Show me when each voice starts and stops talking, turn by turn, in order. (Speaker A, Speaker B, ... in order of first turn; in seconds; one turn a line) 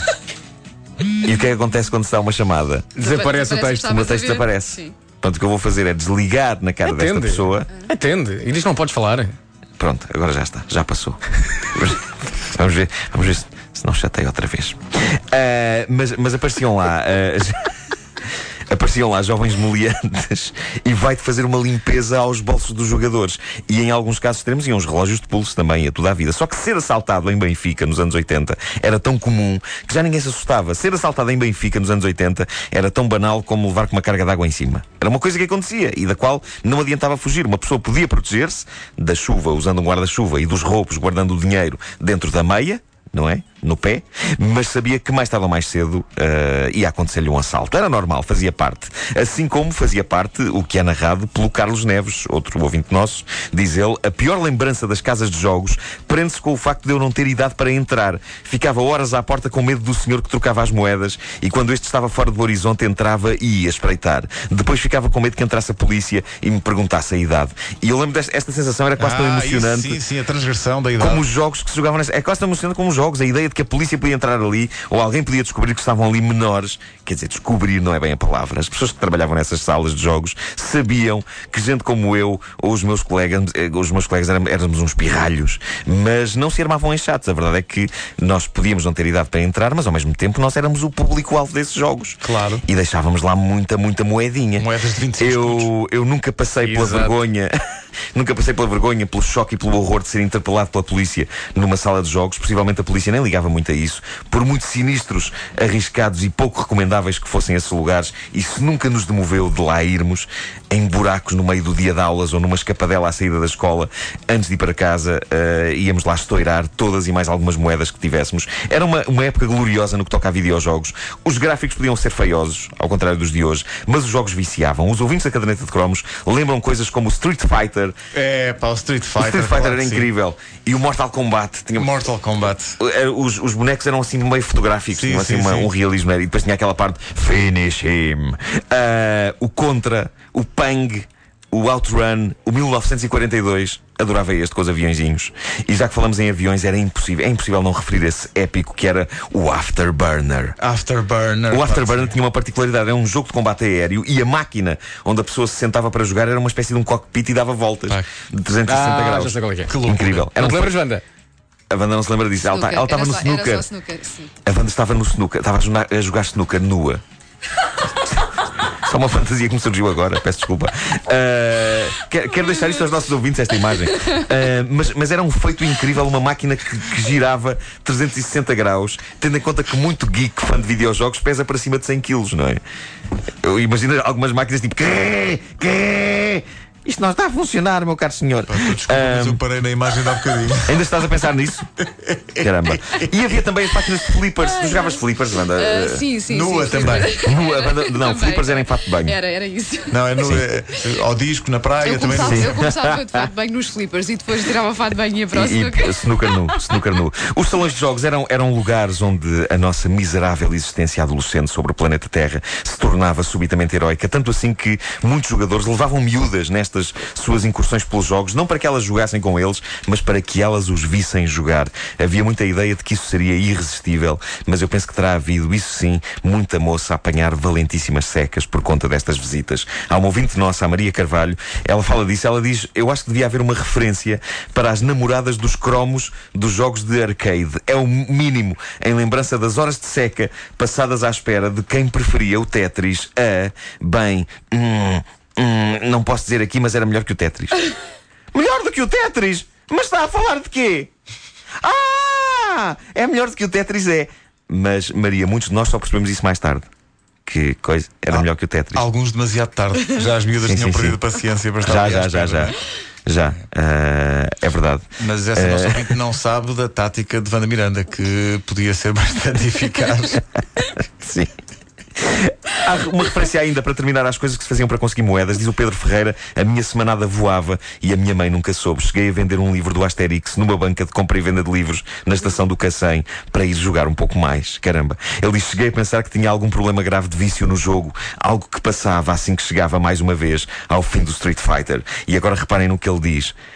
Speaker A: 1.2-2.9
Speaker B: 3.0-3.9
Speaker C: 3.0-5.0
Speaker A: 3.8-7.7
Speaker B: 6.9-9.4
Speaker A: 9.8-17.6
Speaker A: 18.7-70.0
Speaker D: 69.0-71.2
Speaker A: 71.0-97.5
Speaker D: 92.2-92.7
Speaker D: 94.6-95.7
Speaker B: 96.6-97.2
Speaker A: 98.1-128.0
Speaker D: 128.1-130.1
Speaker A: 129.2-131.9
Speaker D: 131.8-132.8
Speaker A: 132.8-150.6
Speaker D: 134.9-135.7
Speaker D: 150.6-152.2
Speaker A: 151.5-160.8
Speaker B: 158.7-159.8
Speaker D: 159.7-160.3
Speaker B: 160.3-161.0
Speaker A: 161.7-163.7
Speaker C: 162.4-164.3
Speaker A: 164.4-167.0
Speaker A: 168.8-182.6
Speaker A: 183.4-189.4
Speaker D: 188.4-190.8
Speaker A: 190.7-191.7
Speaker D: 192.0-192.4
Speaker A: 192.4-196.1
Speaker C: 194.4-195.0
Speaker C: 195.6-200.3
Speaker D: 196.3-197.1
Speaker A: 196.8-199.2
Speaker D: 199.9-202.6
Speaker C: 201.8-206.8
Speaker A: 202.1-203.3
Speaker A: 205.3-247.6
Speaker A: 248.3-250.9
Speaker A: 251.6-256.7
Speaker A: 257.3-258.9
Speaker D: 258.1-262.6
Speaker A: 260.4-261.0
Speaker A: 261.6-265.9
Speaker D: 265.0-270.2
Speaker A: 271.0-271.3
Speaker A: 272.0-293.4